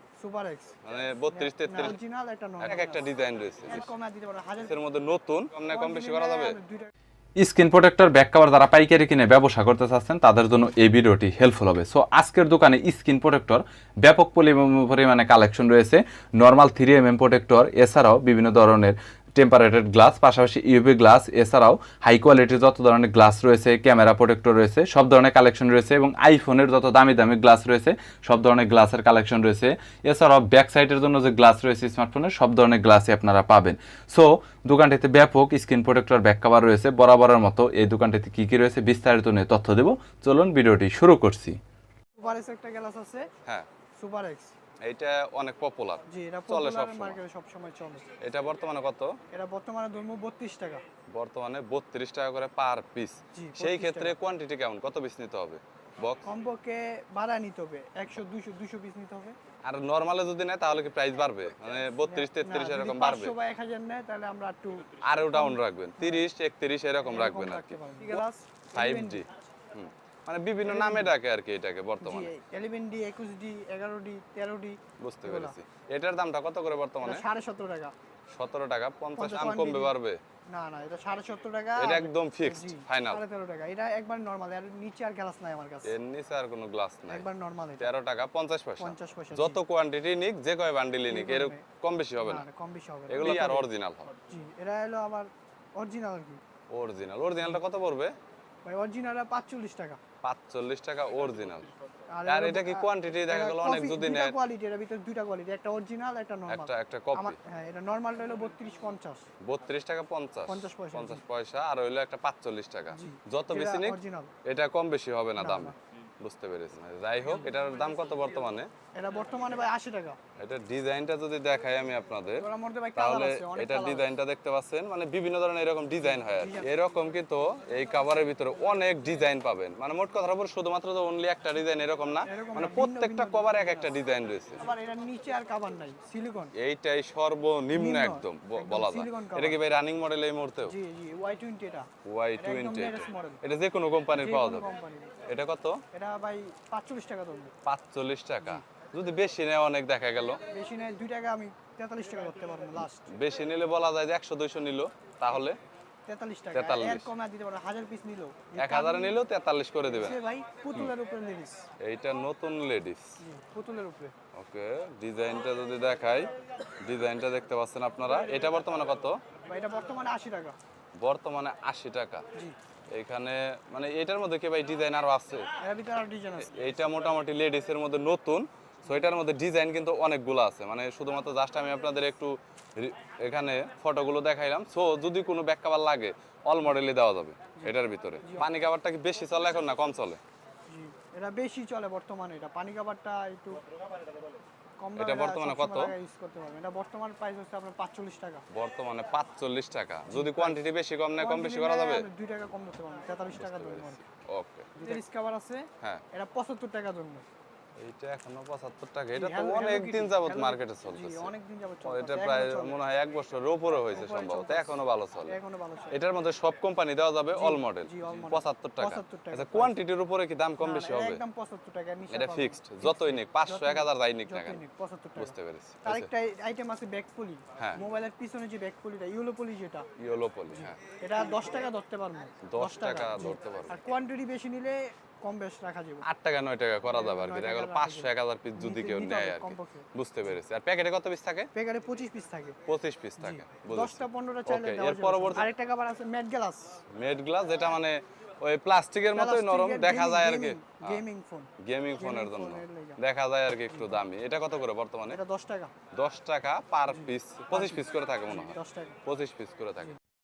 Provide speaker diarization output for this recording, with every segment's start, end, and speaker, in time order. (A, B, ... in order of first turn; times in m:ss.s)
0:00.2-0:03.1 A
0:00.9-0:02.0 B
0:02.6-0:03.9 B
0:03.7-0:04.8 A
0:04.6-0:06.6 B
0:05.7-0:06.9 A
0:07.4-0:41.6 C
0:42.2-0:43.3 A
0:44.0-0:44.5 A
0:44.8-0:47.2 B
0:46.1-0:48.1 A
0:48.2-0:49.2 B
0:49.3-0:50.8 A
0:51.1-0:56.3 B
0:53.3-0:54.2 A
0:56.2-0:59.4 A
0:59.6-1:03.4 B
1:01.9-1:06.3 A
1:05.0-1:08.2 B
1:07.0-1:09.2 A
1:08.8-1:12.3 B
1:10.6-1:11.1 A
1:12.0-1:15.6 A
1:15.0-1:17.3 B
1:17.0-1:17.9 A
1:18.3-1:20.2 B
1:19.2-1:20.0 A
1:20.5-1:26.0 A
1:21.8-1:23.2 B
1:25.8-1:27.3 B
1:27.1-1:27.9 A
1:27.8-1:32.4 B
1:28.8-1:29.6 A
1:31.1-1:31.7 A
1:32.2-1:33.7 A
1:33.1-1:34.1 B
1:34.3-1:36.4 A
1:36.7-1:38.1 B
1:38.6-1:40.0 A
1:40.2-1:41.7 B
1:42.1-1:49.3 A
1:42.3-1:44.4 B
1:46.5-1:47.4 B
1:49.4-1:58.7 B
1:50.5-1:51.2 A
1:52.9-1:54.3 A
1:55.4-1:55.8 A
1:59.0-2:00.2 A
2:00.4-2:14.7 B
2:02.4-2:04.1 A
2:06.0-2:06.7 A
2:12.3-2:14.0 A
2:14.6-2:16.5 A
2:16.6-2:20.8 B
2:17.7-2:19.6 A
2:20.6-2:23.4 A
2:22.0-2:24.7 B
2:24.1-2:25.2 A
2:25.3-2:25.8 B
2:25.9-2:27.5 A
2:27.7-2:30.4 B
2:30.5-2:33.1 A
2:33.1-2:35.6 B
2:36.1-2:39.2 A
2:36.5-2:37.1 B
2:38.6-2:40.2 B
2:39.9-2:41.6 A
2:41.8-2:43.2 B
2:43.2-2:44.1 A
2:44.3-2:49.2 B
2:49.5-2:50.6 A
2:51.0-2:52.2 B
2:52.9-2:55.5 B
2:55.6-2:56.5 A
2:56.4-3:10.2 B
3:07.6-3:08.5 A
3:10.7-3:13.6 A
3:14.8-3:18.4 A
3:15.0-3:16.0 B
3:18.5-3:22.1 B
3:20.1-3:20.6 A
3:21.2-3:24.0 A
3:23.3-3:25.0 B
3:24.8-3:27.2 A
3:27.8-3:31.3 B
3:29.1-3:32.8 A
3:31.8-3:35.4 B
3:33.9-3:36.0 A
3:35.9-3:41.2 B
3:37.3-3:39.8 A
3:40.6-3:45.3 A
3:42.1-3:44.6 B
3:45.2-3:46.1 B
3:45.8-3:49.9 A
3:47.6-3:47.8 B
3:50.0-3:50.8 B
3:50.5-3:56.1 A
3:52.5-3:53.9 B
3:56.0-4:01.5 B
3:56.9-3:59.9 A
4:01.5-4:02.6 A
4:02.7-4:05.5 B
4:03.2-4:06.8 A
4:06.9-4:11.0 B
4:09.1-4:13.0 A
4:11.6-4:15.2 B
4:13.7-4:14.0 A
4:15.1-4:15.7 A
4:16.0-4:19.9 B
4:16.9-4:19.0 A